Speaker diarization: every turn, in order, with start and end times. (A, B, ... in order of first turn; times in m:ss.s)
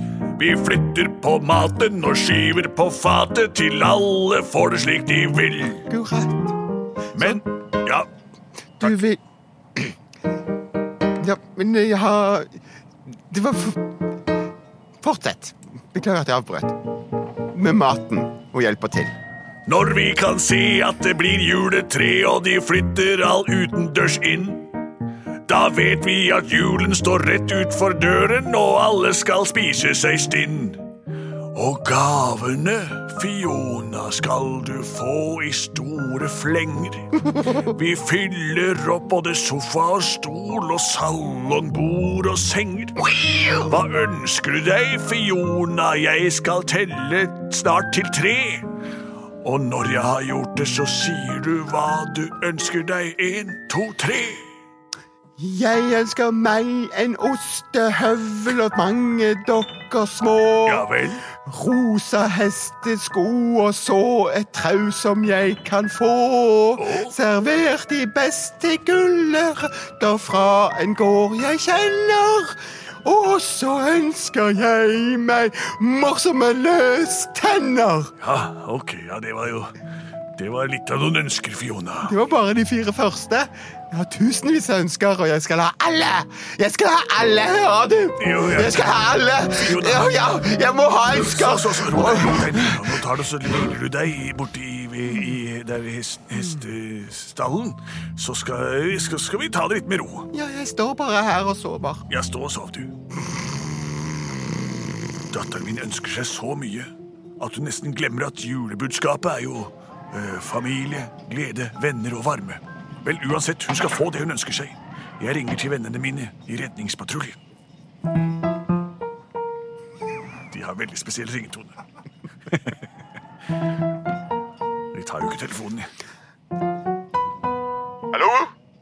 0:00.4-0:05.9 A
0:05.9-0:06.6 B
0:07.1-0:08.1 A
0:08.8-0:09.2 B
0:11.2-0:12.6 B
0:13.3-0:13.9 B
0:15.0-0:16.8 B
0:17.5-0:19.1 B
0:19.7-0:24.7 A
0:25.5-0:30.8 A
0:31.5-0:48.7 A
0:49.4-0:54.4 A
0:55.4-1:18.1 B
1:00.6-1:01.2 A
1:06.8-1:07.2 A
1:18.2-1:19.7 A
1:20.4-1:22.2 A
1:22.1-1:32.9 B
1:28.2-1:30.2 A
1:31.0-1:40.3 A
1:40.3-1:42.0 B
1:42.1-1:43.0 A
1:45.3-1:57.4 A
2:00.5-2:01.7 A
2:04.9-2:05.9 A
2:08.1-2:08.5 B